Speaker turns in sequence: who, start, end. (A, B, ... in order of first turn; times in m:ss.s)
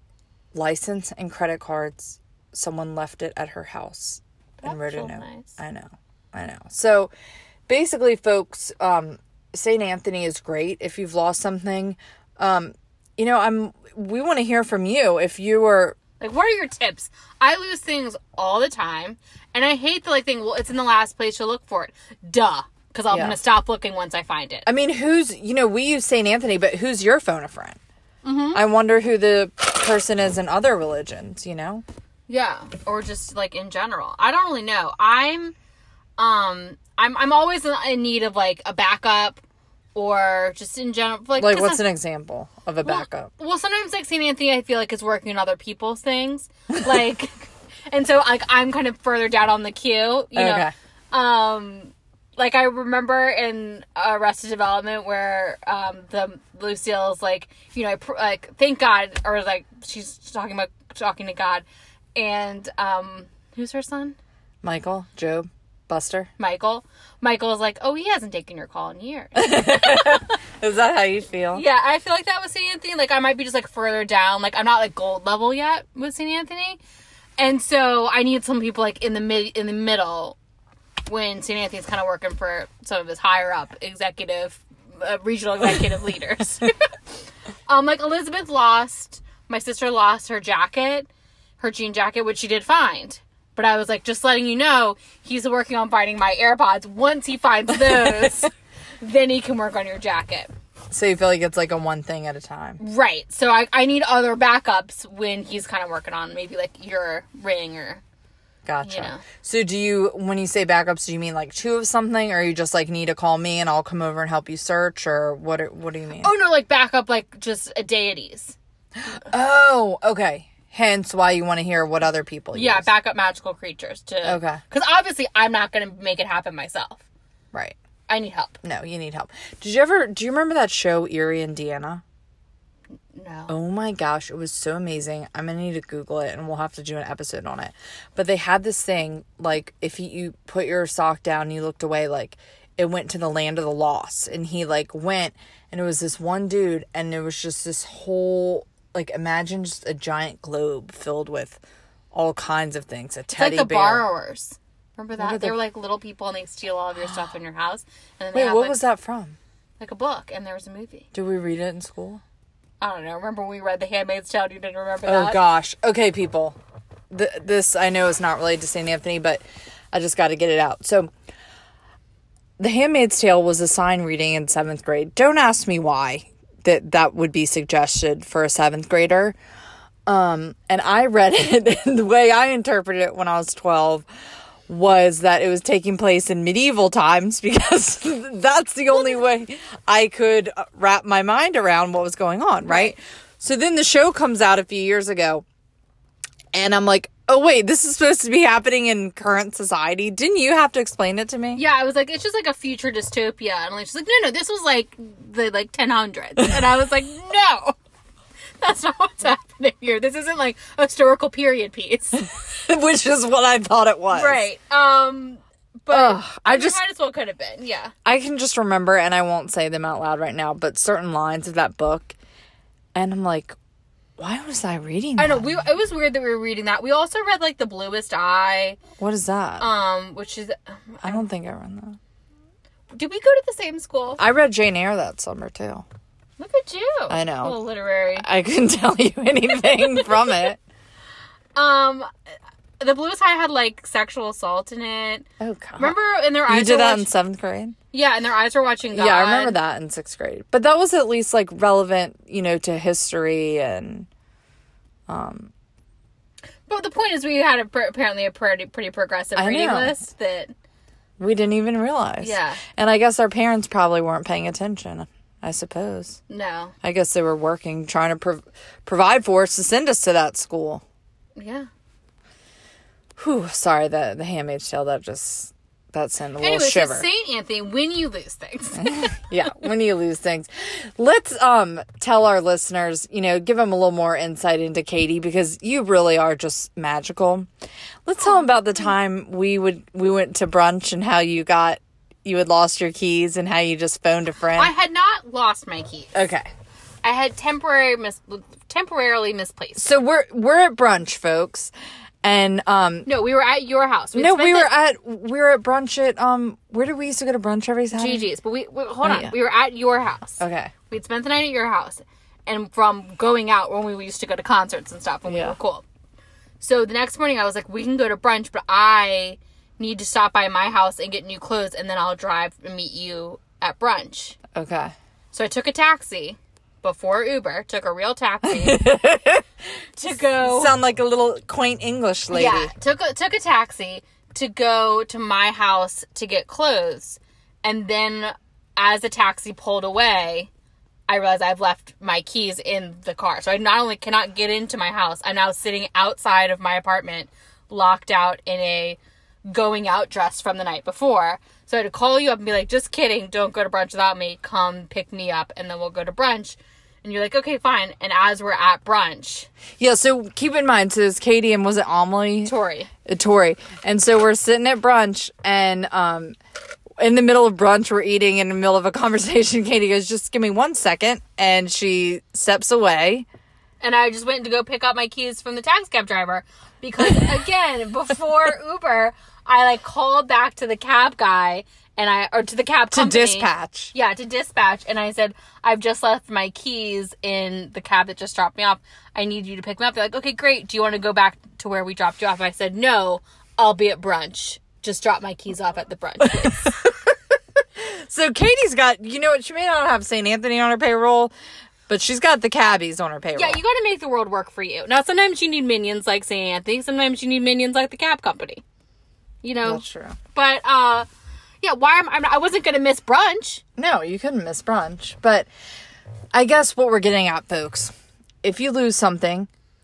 0:00.5-0:07.1 A
0:04.6-0:05.6 B
0:07.7-0:16.0 A
0:16.2-0:24.6 B
0:23.1-0:23.4 A
0:24.6-0:27.8 A
0:28.2-0:28.6 B
0:28.5-0:31.8 A
0:32.3-0:35.5 B
0:36.2-0:39.4 B
0:39.9-0:41.8 B
0:41.4-0:43.3 A
0:42.8-0:47.4 B
0:47.9-1:04.2 B
0:50.3-0:50.7 A
1:04.6-1:06.3 A
1:06.4-1:10.3 B
1:09.4-1:11.6 A
1:11.5-1:16.8 B
1:17.4-1:20.4 B
1:21.1-1:26.9 B
1:27.7-1:40.5 B
1:37.7-1:38.5 A
1:40.9-1:42.8 A
1:42.8-1:48.0 B
1:48.6-1:56.3 A
1:48.8-1:49.2 B
1:56.2-1:58.6 B
1:59.0-2:02.9 A
2:02.5-2:07.0 B
2:04.2-2:04.6 A
2:08.1-2:08.6 B
2:08.6-2:12.0 A
2:13.1-2:13.5 B
2:13.5-2:31.6 A
2:32.1-2:34.0 A
2:33.3-2:38.8 B
2:35.2-2:35.6 A
2:37.0-2:37.3 A
2:38.3-2:39.4 A
2:39.8-2:41.1 B
2:41.1-2:42.2 A
2:42.8-2:45.4 B
2:45.0-2:46.6 A
2:47.1-2:51.1 A
2:52.6-2:59.4 A
3:00.1-3:04.0 A
3:04.7-3:15.4 A
3:12.7-3:12.9 B
3:16.5-3:21.6 A
3:21.6-3:27.7 B
3:26.4-3:26.7 A
3:28.6-3:32.3 B
3:32.6-3:34.4 A
3:34.1-3:37.9 B
3:35.9-3:36.8 A
3:38.0-3:42.1 A
3:42.9-3:43.5 A
3:44.2-3:45.5 A
3:45.2-3:48.8 B
3:49.0-3:49.7 A
3:49.6-3:51.2 B
3:51.0-3:52.0 A
3:52.9-3:54.2 B
3:54.2-3:55.8 A
3:56.4-3:58.2 B
3:57.1-3:57.6 A
3:58.2-4:00.6 A
4:01.5-4:02.1 B
4:02.8-4:05.2 B
4:05.4-4:06.0 A
4:05.8-4:07.1 B
4:06.5-4:07.7 A
4:07.9-4:09.6 B
4:08.9-4:14.1 A
4:15.1-4:15.5 A
4:16.7-4:20.5 B
4:19.4-4:20.0 A
4:21.2-4:26.2 A
4:22.2-4:22.6 B
4:26.3-4:26.7 B
4:26.8-4:30.8 A
4:31.4-4:31.7 B
4:33.2-4:37.1 A
4:36.4-4:39.1 B
4:38.8-4:47.5 A
4:48.0-4:54.7 A
4:48.2-4:48.9 B
4:54.5-4:56.1 B
4:56.1-4:56.5 A
4:57.0-4:59.9 B
4:59.8-5:01.7 A
5:02.2-5:03.1 A
5:03.0-5:04.7 B
5:04.1-5:08.3 A
5:07.9-5:15.8 B
5:09.0-5:09.3 A
5:10.4-5:10.7 A
5:15.2-5:15.6 A
5:16.6-5:24.4 B
5:24.5-5:24.9 A
5:25.3-5:29.0 B
5:28.5-5:29.4 A
5:30.0-5:30.8 B
5:30.1-5:32.7 A
5:32.3-5:40.5 B
5:41.1-5:59.5 B
5:59.8-6:02.5 A
6:02.4-6:02.9 B
6:03.0-6:06.4 A
6:07.0-6:13.2 A
6:13.8-6:36.7 B
6:22.9-6:23.9 A
6:36.4-6:36.9 A
6:37.8-6:41.3 A
6:41.9-6:43.6 A
6:43.3-6:48.6 B
6:49.4-6:49.8 B
6:49.6-6:50.2 A
6:50.3-6:51.1 B
6:51.6-6:53.6 B
6:53.8-6:55.5 A
6:56.3-6:59.5 A